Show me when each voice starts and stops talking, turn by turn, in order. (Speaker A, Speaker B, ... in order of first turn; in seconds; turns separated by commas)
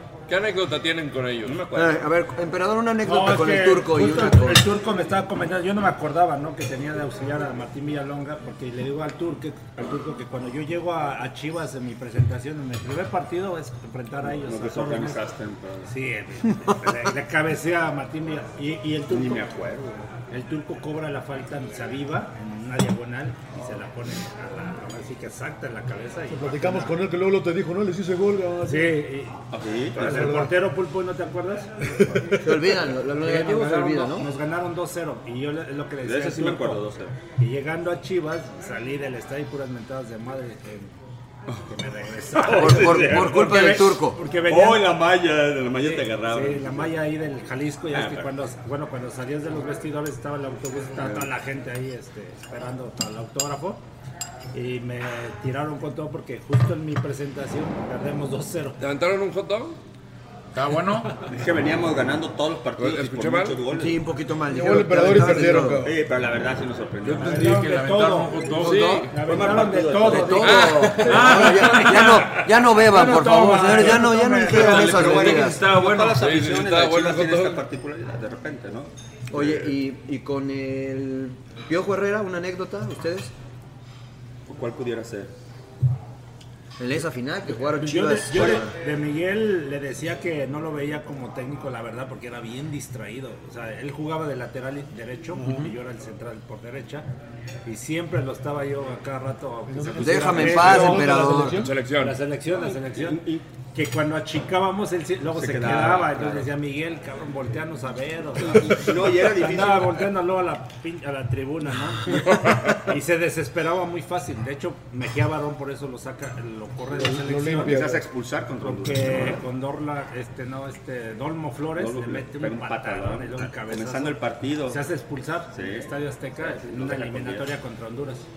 Speaker A: 0.3-1.6, Speaker B: 1.4-2.0, Speaker C: 1.7-4.7, Speaker D: 3.0-15.2, Speaker B: 14.2-15.9, Speaker D: 15.9-19.5, Speaker B: 19.1-20.1, Speaker D: 20.3-27.0, Speaker E: 26.3-29.1, Speaker D: 28.6-32.4, Speaker B: 29.5-30.4, Speaker E: 30.0-30.6, Speaker E: 32.1-32.7, Speaker C: 32.4-34.3, Speaker D: 33.2-36.9, Speaker B: 36.0-37.1, Speaker D: 37.4-40.9, Speaker D: 41.7-45.0, Speaker B: 42.4-43.8, Speaker C: 42.6-44.2, Speaker B: 44.4-46.9, Speaker D: 45.8-53.8, Speaker B: 47.9-48.3, Speaker B: 51.0-51.3, Speaker D: 54.5-58.8, Speaker A: 58.8-59.8, Speaker F: 60.5-61.2, Speaker B: 61.2-64.0, Speaker A: 62.8-63.6, Speaker C: 63.7-65.8, Speaker E: 64.5-66.0, Speaker B: 65.7-67.6, Speaker F: 67.0-69.1, Speaker D: 67.1-71.3, Speaker C: 68.6-69.1, Speaker A: 68.6-69.1, Speaker B: 69.2-71.3, Speaker C: 70.1-75.7, Speaker A: 70.4-72.4, Speaker F: 71.1-71.7, Speaker D: 72.3-74.8, Speaker B: 74.5-79.7, Speaker A: 74.5-77.6, Speaker C: 79.3-83.3, Speaker B: 84.5-85.3, Speaker C: 86.8-88.7, Speaker D: 87.7-97.1, Speaker C: 95.4-95.7, Speaker D: 97.6-101.4, Speaker E: 99.7-101.8, Speaker C: 100.0-101.6, Speaker A: 101.5-102.2, Speaker D: 101.9-103.2, Speaker B: 102.5-103.4, Speaker D: 103.8-112.3, Speaker B: 105.3-106.5, Speaker B: 108.5-110.1, Speaker B: 112.3-112.8, Speaker D: 112.8-117.9, Speaker E: 117.0-118.1, Speaker B: 117.5-119.4, Speaker D: 118.6-128.3, Speaker B: 121.8-124.8, Speaker B: 125.5-127.5